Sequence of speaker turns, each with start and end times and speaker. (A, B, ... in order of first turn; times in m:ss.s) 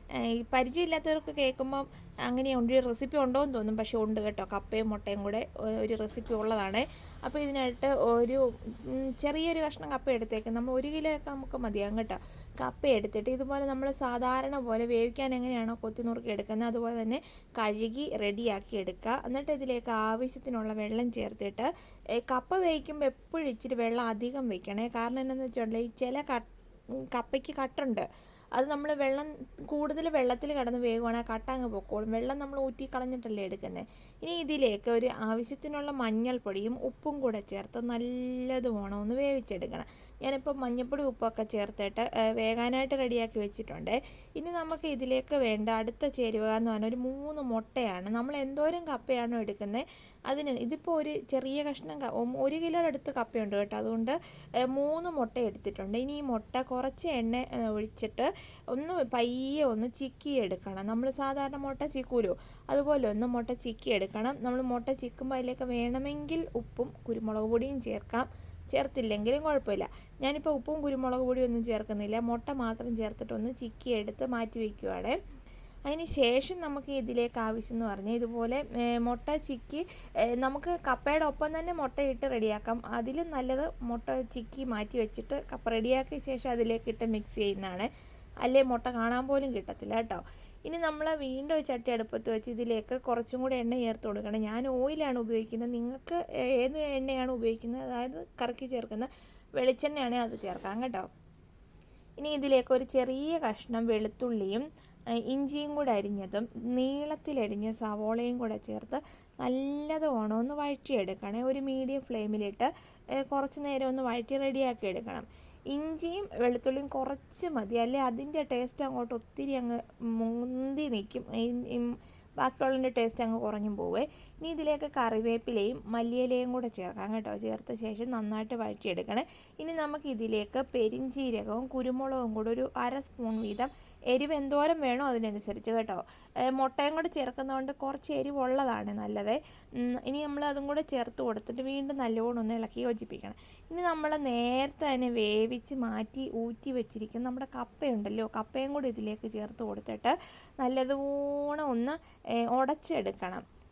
0:00.3-0:21.7 A
0:22.3-0:26.5 A
0:27.2-0:28.1 A
0:28.6-0:54.2 A
0:54.7-1:15.2 A
1:15.9-1:19.8 A
1:20.4-1:27.9 A
1:28.4-1:41.1 A
1:42.2-1:44.6 A
1:45.3-1:52.7 A
1:53.3-2:16.0 A
2:16.5-2:32.0 A
2:32.5-2:33.4 A